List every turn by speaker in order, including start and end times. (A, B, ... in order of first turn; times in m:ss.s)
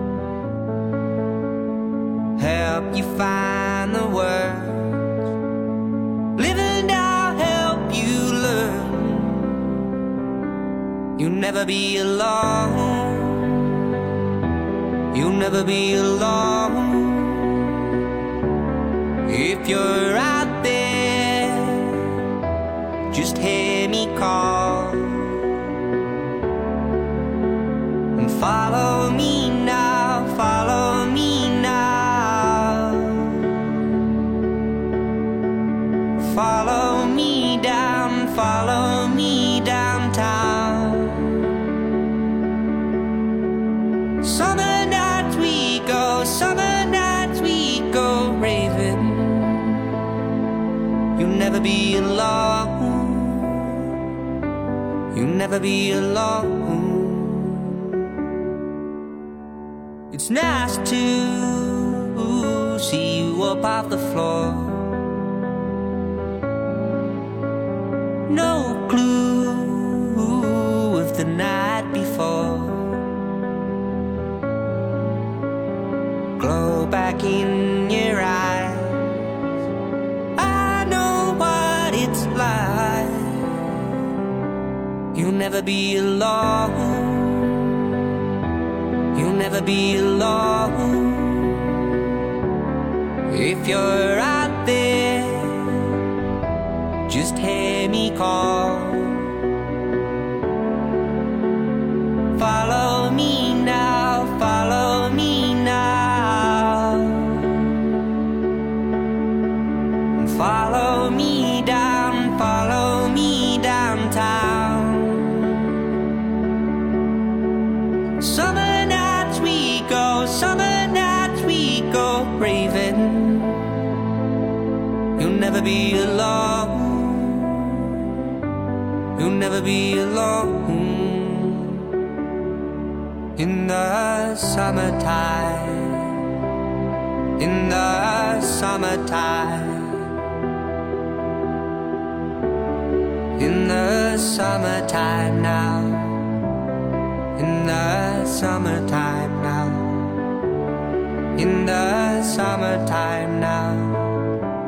0:02.4-0:05.0 A
0:06.4-0:09.5 A
0:11.2-0:13.6 A
0:15.1-0:17.6 A
0:19.2-0:21.9 A
0:23.1-0:25.3 A
0:28.1-0:33.4 A
0:36.2-0:41.3 A
0:44.2-0:49.8 A
0:51.2-0:53.8 A
0:55.1-0:57.7 A
1:00.1-1:05.0 A
1:08.3-1:13.0 A
1:16.4-1:19.0 A
1:20.4-1:23.4 A
1:25.1-1:27.6 A
1:29.1-1:31.5 A
1:33.3-1:35.6 A
1:37.1-1:39.3 A
1:42.3-1:47.4 A
1:50.2-1:55.2 A
1:58.2-2:03.7 A
2:05.2-2:07.8 A
2:09.2-2:11.8 A
2:13.4-2:16.1 A
2:17.4-2:20.0 A
2:23.4-2:26.2 A
2:27.4-2:30.1 A
2:31.3-2:34.1 A